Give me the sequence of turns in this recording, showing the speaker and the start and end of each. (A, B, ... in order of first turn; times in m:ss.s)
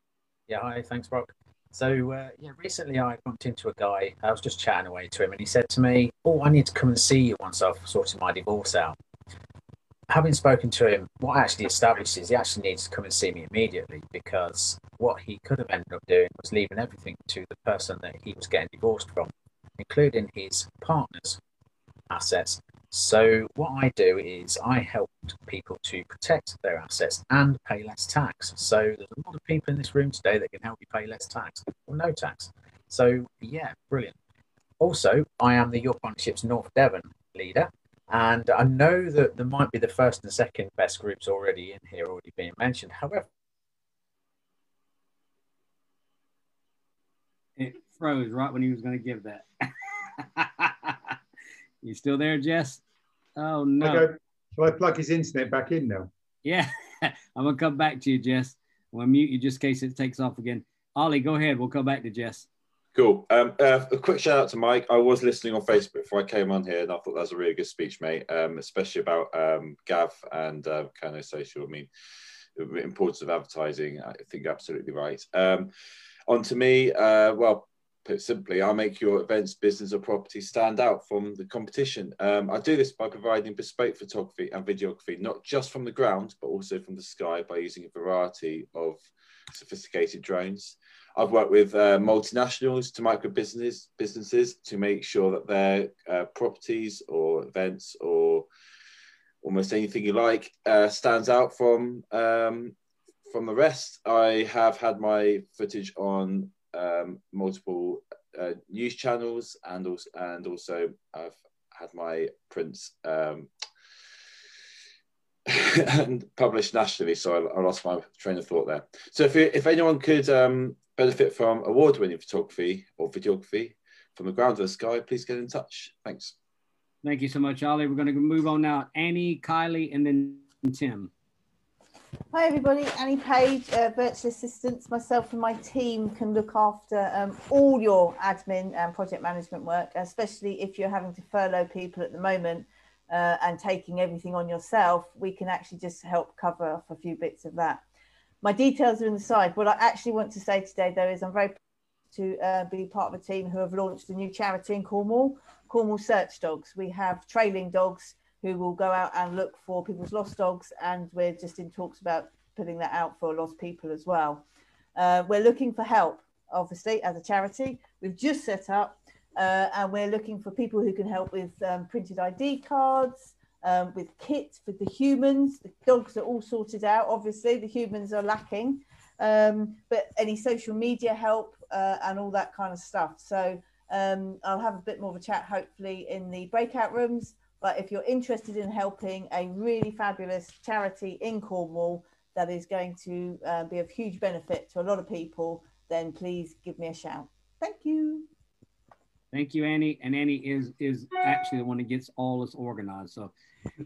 0:00.5-0:09.0 A
0:10.1-0:21.4 A
0:22.1-0:34.2 A
0:34.8-0:43.3 A
0:47.6-0:49.5 B
0:50.2-0:51.1 B
0:51.8-0:52.8 B
0:53.4-0:54.1 B
0:53.8-0:56.1 C
0:56.4-1:02.5 B
1:03.0-1:11.9 D
1:12.6-1:15.7 D
1:16.3-1:38.5 D
1:39.4-1:42.8 D
1:43.3-1:53.5 D
1:55.5-2:06.4 D
2:07.0-2:11.1 B
2:12.3-2:27.8 E
2:28.4-2:31.6 E
2:32.1-2:44.4 E
2:45.0-3:18.3 E
3:19.3-3:23.3 B